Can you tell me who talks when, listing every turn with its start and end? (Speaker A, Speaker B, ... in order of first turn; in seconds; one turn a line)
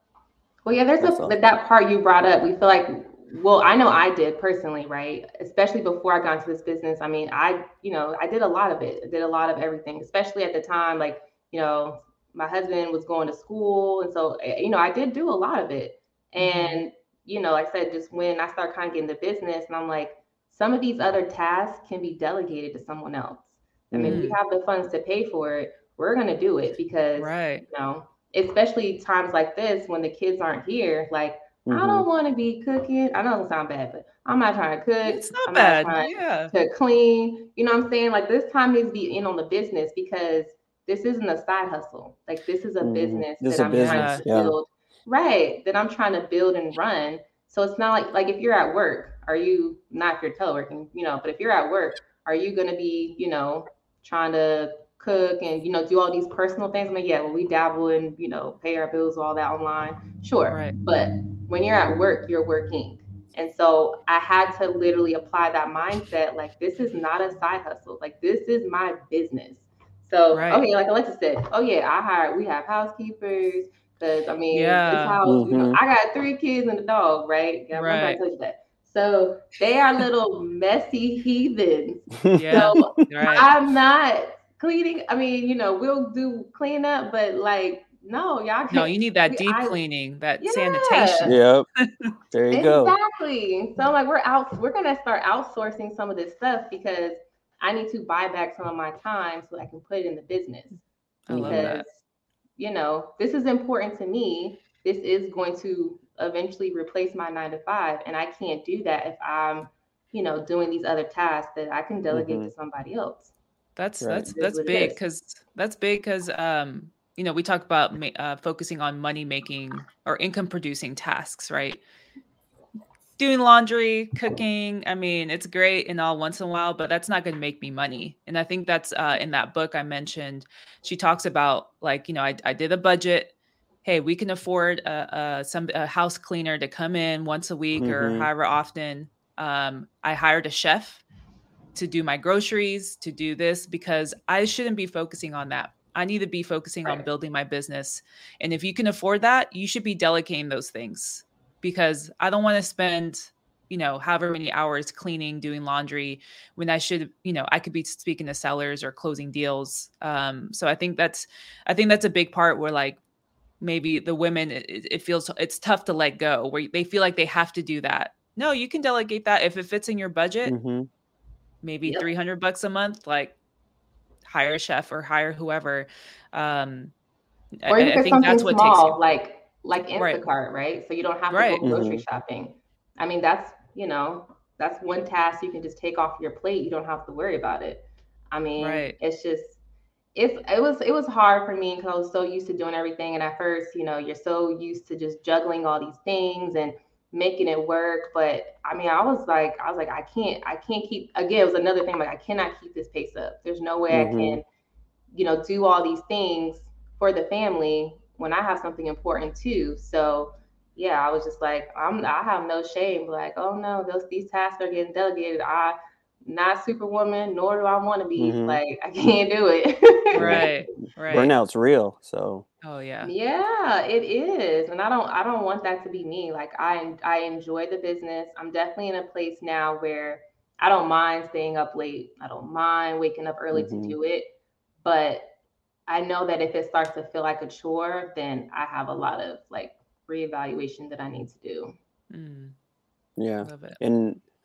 Speaker A: 0.7-89.8
Speaker B: 1.0-1.4
Speaker C: 16.4-16.8
Speaker B: 23.9-24.2
Speaker C: 24.0-24.4
Speaker C: 27.2-27.6
Speaker B: 31.7-32.1
Speaker C: 35.0-36.5
Speaker B: 42.8-44.5
Speaker C: 43.7-44.2
Speaker C: 60.5-60.8
Speaker C: 70.3-70.6
Speaker C: 74.5-75.2
Speaker B: 75.2-75.8
Speaker C: 77.7-78.2
Speaker B: 82.2-82.5
Speaker C: 82.3-83.5
Speaker C: 88.7-92.1
Speaker A: 90.4-91.3
Speaker B: 91.3-91.7
Speaker B: 92.3-93.0
Speaker A: 92.5-100.8
Speaker C: 101.3-101.9
Speaker B: 101.3-101.7
Speaker A: 101.3-102.0
Speaker A: 102.6-113.3
Speaker B: 112.1-112.5
Speaker C: 113.8-121.8
Speaker B: 114.0-114.3
Speaker A: 114.3-115.0
Speaker C: 123.2-133.3
Speaker C: 133.8-141.0
Speaker B: 137.8-138.3
Speaker C: 141.8-163.0
Speaker C: 163.6-170.5
Speaker B: 170.5-170.9
Speaker C: 171.6-173.4
Speaker C: 174.2-176.9
Speaker C: 177.6-179.0
Speaker A: 177.7-189.6
Speaker C: 180.0-180.2
Speaker C: 181.3-181.6
Speaker B: 181.6-182.0
Speaker C: 188.6-189.0
Speaker A: 190.2-204.4
Speaker B: 203.9-204.4
Speaker A: 205.1-220.5
Speaker B: 218.2-218.6
Speaker C: 220.1-221.3
Speaker B: 220.2-220.4
Speaker B: 221.1-222.5
Speaker C: 222.6-223.1
Speaker A: 223.0-234.3
Speaker B: 233.5-234.0
Speaker A: 234.8-235.3
Speaker A: 235.9-241.7
Speaker C: 242.1-242.6
Speaker B: 243.2-244.2
Speaker C: 243.4-243.8